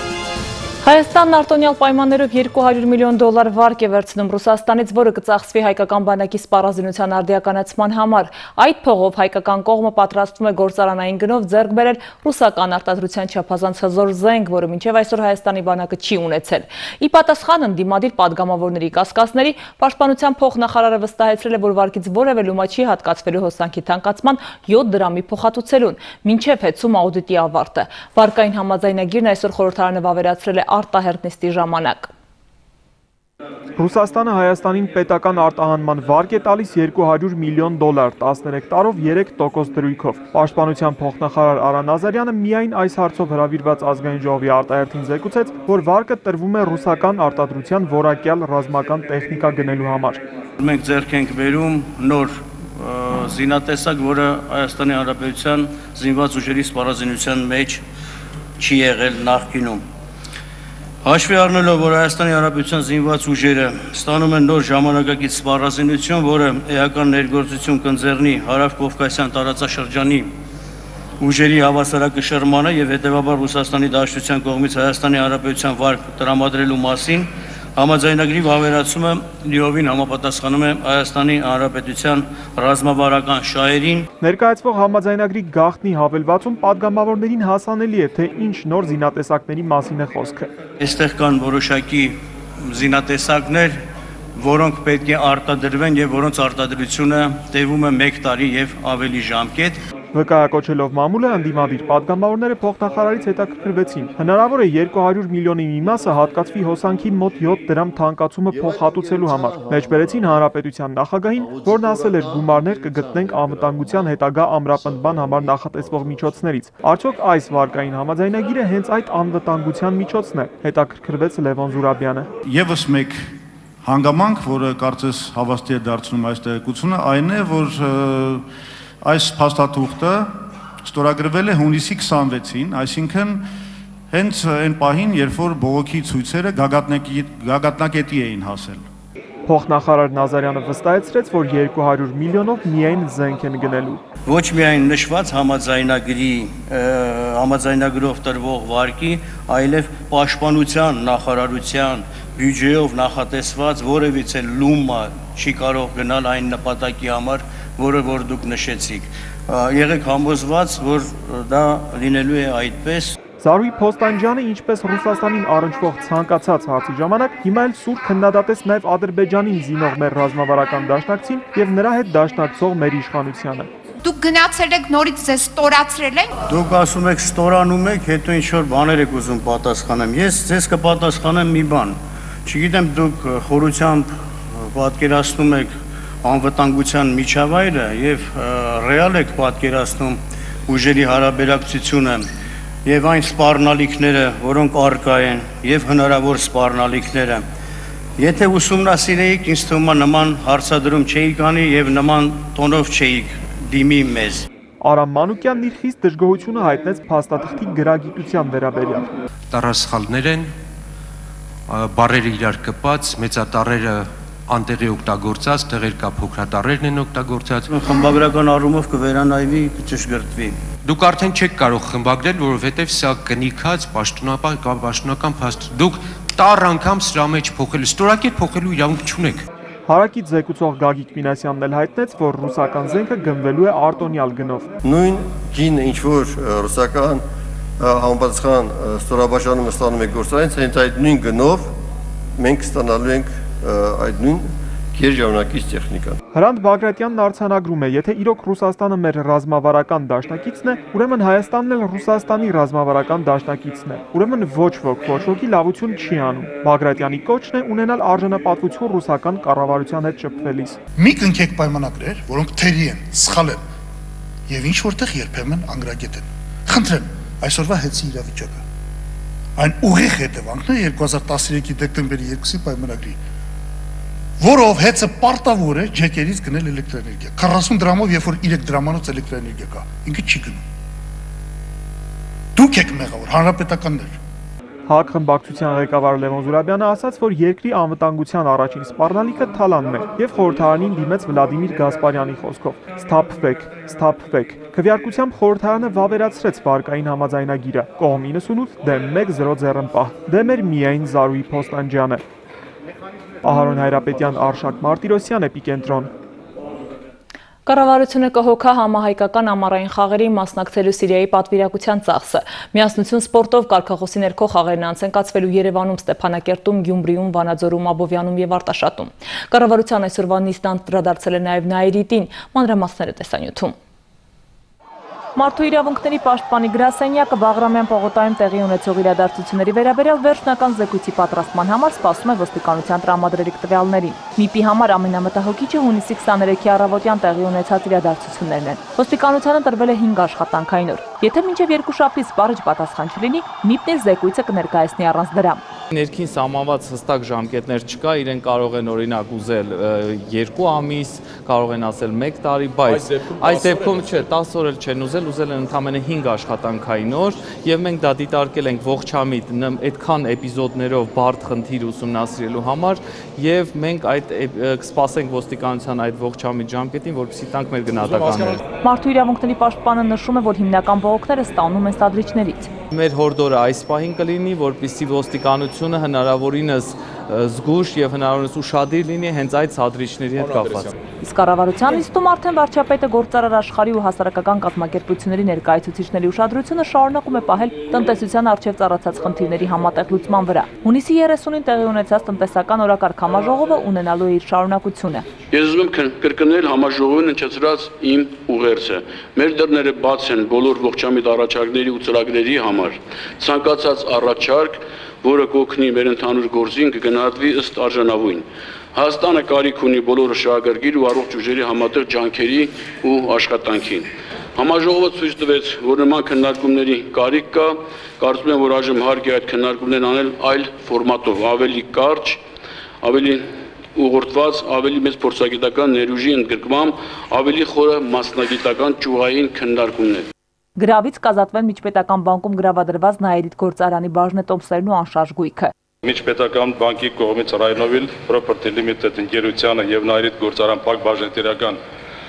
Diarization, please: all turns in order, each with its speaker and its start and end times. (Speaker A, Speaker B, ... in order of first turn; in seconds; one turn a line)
Speaker A: 0.8-32.1
Speaker B: 33.8-50.2
Speaker C: 50.6-57.8
Speaker C: 58.6-59.8
Speaker C: 61.0-70.3
Speaker C: 71.2-84.1
Speaker B: 84.2-90.5
Speaker C: 90.8-93.8
Speaker C: 94.3-99.8
Speaker B: 100.1-122.3
Speaker D: 122.4-128.4
Speaker D: 129.0-130.3
Speaker D: 130.8-133.4
Speaker D: 134.1-138.8
Speaker B: 139.5-144.0
Speaker C: 144.2-163.1
Speaker B: 163.4-173.7
Speaker E: 174.0-176.3
Speaker C: 176.5-192.3
Speaker C: 192.8-197.4
Speaker C: 198.2-204.4
Speaker B: 204.8-209.1
Speaker F: 209.5-210.5
Speaker F: 211.7-217.7
Speaker C: 217.7-220.6
Speaker F: 220.8-229.4
Speaker B: 229.9-234.7
Speaker G: 234.8-237.2
Speaker G: 237.8-241.7
Speaker G: 242.3-246.2
Speaker B: 246.3-260.8
Speaker H: 261.0-263.6
Speaker H: 264.5-268.6
Speaker H: 269.6-273.2
Speaker H: 274.4-280.6
Speaker H: 282.5-284.2
Speaker B: 284.9-302.2
Speaker B: 303.4-306.1
Speaker A: 307.6-323.7
Speaker A: 325.4-345.6
Speaker I: 345.9-368.6
Speaker A: 368.8-372.7
Speaker I: 372.9-380.9
Speaker A: 381.2-395.2
Speaker J: 395.5-422.4
Speaker J: 423.0-430.3
Speaker A: 430.8-435.7
Speaker K: 436.0-441.8